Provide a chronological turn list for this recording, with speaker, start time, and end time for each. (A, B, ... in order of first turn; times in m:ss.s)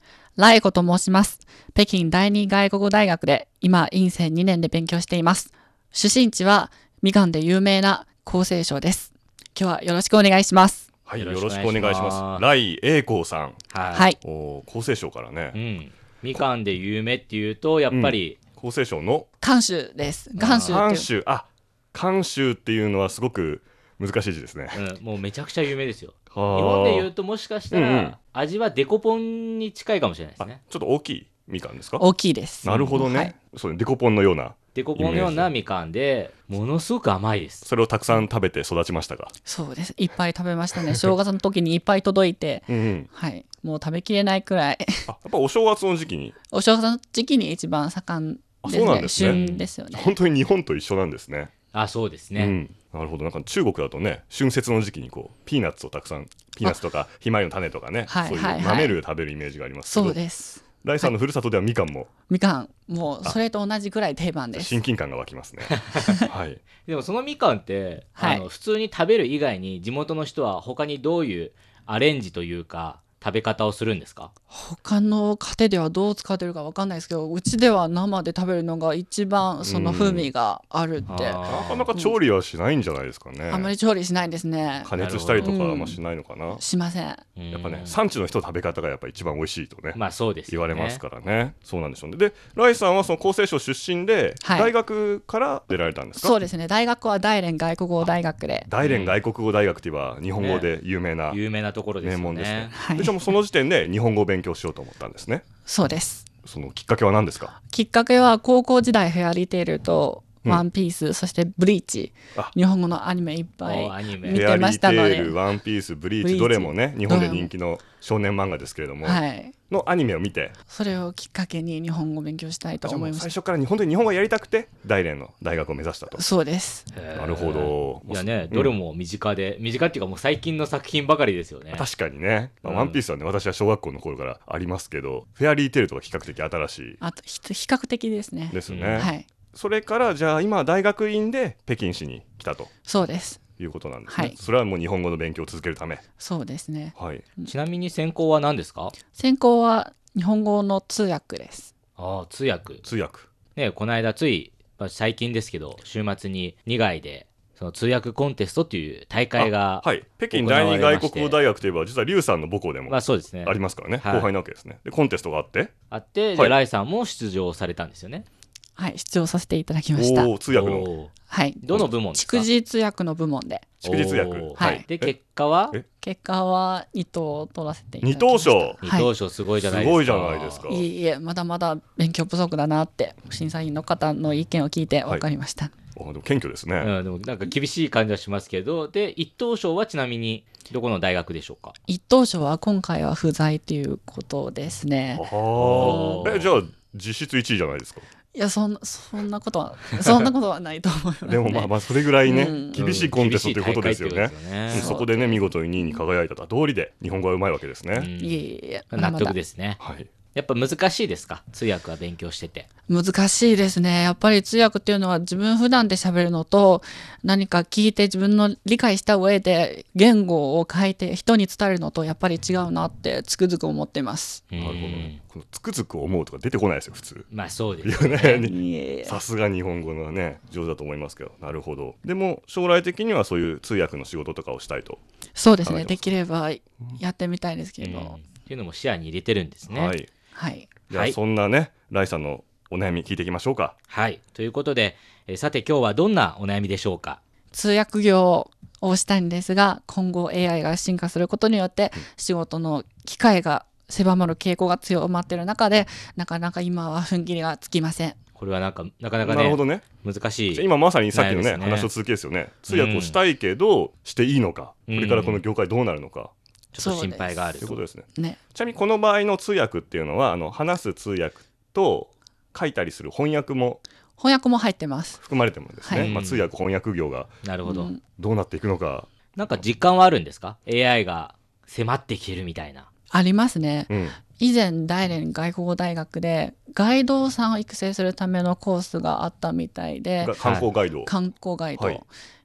0:00.4-0:10.9 A
0:11.1-0:13.6 B
0:11.2-0:12.4 C
0:13.7-0:14.1 C
0:14.2-0:15.6 B
0:15.5-0:18.4 C
0:17.9-0:19.3 B
0:19.4-0:21.1 A
0:20.4-0:20.9 C
0:20.5-0:24.8 B
0:24.7-0:30.6 C
0:26.3-0:27.1 B
0:27.7-0:28.2 B
0:30.4-0:32.1 B
0:32.0-0:33.3 A
0:32.6-0:35.5 B
0:32.7-0:33.0 C
0:34.7-0:37.7 C
0:37.6-0:39.3 B
0:39.5-0:45.1 A
0:42.7-0:43.1 B
0:45.1-0:46.4 B
0:46.5-0:50.2 A
0:48.6-0:51.5 B
0:49.2-0:49.7 C
0:51.7-0:52.6 C
0:52.4-1:00.2 B
0:58.1-0:59.0 A
0:59.9-1:01.1 A
1:00.8-1:02.1 B
1:02.3-1:04.8 A
1:04.6-1:06.6 B
1:05.7-1:06.2 C
1:06.8-1:14.3 C
1:08.2-1:08.5 A
1:14.5-1:21.4 A
1:19.6-1:20.3 B
1:21.1-1:21.9 C
1:21.5-1:23.7 B
1:23.5-1:24.9 A
1:24.8-1:26.6 B
1:24.9-1:25.6 C
1:25.4-1:26.0 A
1:26.6-1:27.2 A
1:27.4-1:28.0 C
1:27.5-1:36.3 B
1:29.9-1:31.0 C
1:34.4-1:34.7 A
1:36.2-1:38.7 A
1:38.7-1:41.4 B
1:38.8-1:39.2 C
1:40.4-1:40.7 C
1:41.3-1:42.8 C
1:42.0-1:45.4 B
1:42.8-1:43.2 A
1:45.7-1:46.3 A
1:46.4-1:47.5 B
1:47.6-1:55.4 A
1:53.6-1:54.5 C
1:54.2-2:00.5 B
1:56.2-1:57.5 A
1:59.0-1:59.6 A
2:00.7-2:03.3 A
2:02.8-2:06.2 B
2:06.2-2:06.9 A
2:06.9-2:11.9 C
2:07.1-2:08.8 B
2:11.7-2:17.0 B
2:12.6-2:13.0 C
2:17.0-2:19.3 A
2:18.5-2:22.7 B
2:18.7-2:19.1 C
2:22.9-2:23.4 A
2:23.6-2:26.0 B
2:24.1-2:24.4 A
2:26.2-2:27.5 A
2:27.0-2:27.3 B
2:27.5-2:29.0 C
2:29.2-2:31.7 A
2:32.0-2:32.8 C
2:32.8-2:33.3 B
2:33.6-2:41.4 C
2:39.4-2:45.7 B
2:42.9-2:44.3 C
2:45.9-2:48.3 C
2:48.8-2:50.3 A
2:50.0-2:50.9 B
2:50.5-2:52.5 C
2:51.3-2:51.6 A
2:52.1-2:53.7 A
2:53.8-2:55.2 B
2:53.8-2:55.8 C
2:54.6-2:54.8 A
2:56.0-2:59.1 A
2:58.0-2:58.8 B
2:58.8-3:00.6 C
2:59.6-3:00.9 B
3:00.7-3:05.7 A
3:06.0-3:06.9 B
3:06.8-3:11.8 C
3:11.9-3:15.3 A
3:15.2-3:18.1 B
3:15.6-3:16.6 C
3:15.8-3:16.3 A
3:18.3-3:22.8 A
3:21.3-3:28.1 B
3:22.8-3:25.0 C
3:24.8-3:26.0 A
3:27.9-3:29.8 C
3:28.2-3:29.4 A
3:29.8-3:30.1 B
3:30.3-3:32.7 C
3:32.9-3:44.4 A
3:44.5-3:45.2 C
3:44.6-3:47.3 B
3:47.3-3:48.5 C
3:47.8-3:55.0 B
3:48.5-3:49.2 A
3:55.4-3:58.2 A
3:55.6-3:56.1 B
3:57.8-4:00.0 C
3:59.7-4:00.1 B
4:00.4-4:00.7 A
4:00.9-4:01.2 C
4:00.9-4:03.8 B
4:03.9-4:07.2 C
4:07.5-4:18.2 A
4:18.4-4:21.9 C
4:19.2-4:19.9 B
4:20.5-4:26.3 B
4:22.7-4:23.2 C
4:24.9-4:25.4 C
4:26.7-4:27.8 C
4:26.8-4:27.5 A
4:27.6-4:33.8 B
4:34.2-4:35.2 A
4:35.2-4:37.3 B
4:35.9-4:36.5 C
4:37.4-4:37.9 C
4:37.6-4:38.0 A
4:38.2-4:39.1 B
4:39.4-4:42.9 C
4:43.1-4:50.3 A
4:43.9-4:44.2 B
4:50.2-4:51.2 B
4:50.4-4:50.7 C
4:51.1-4:52.1 A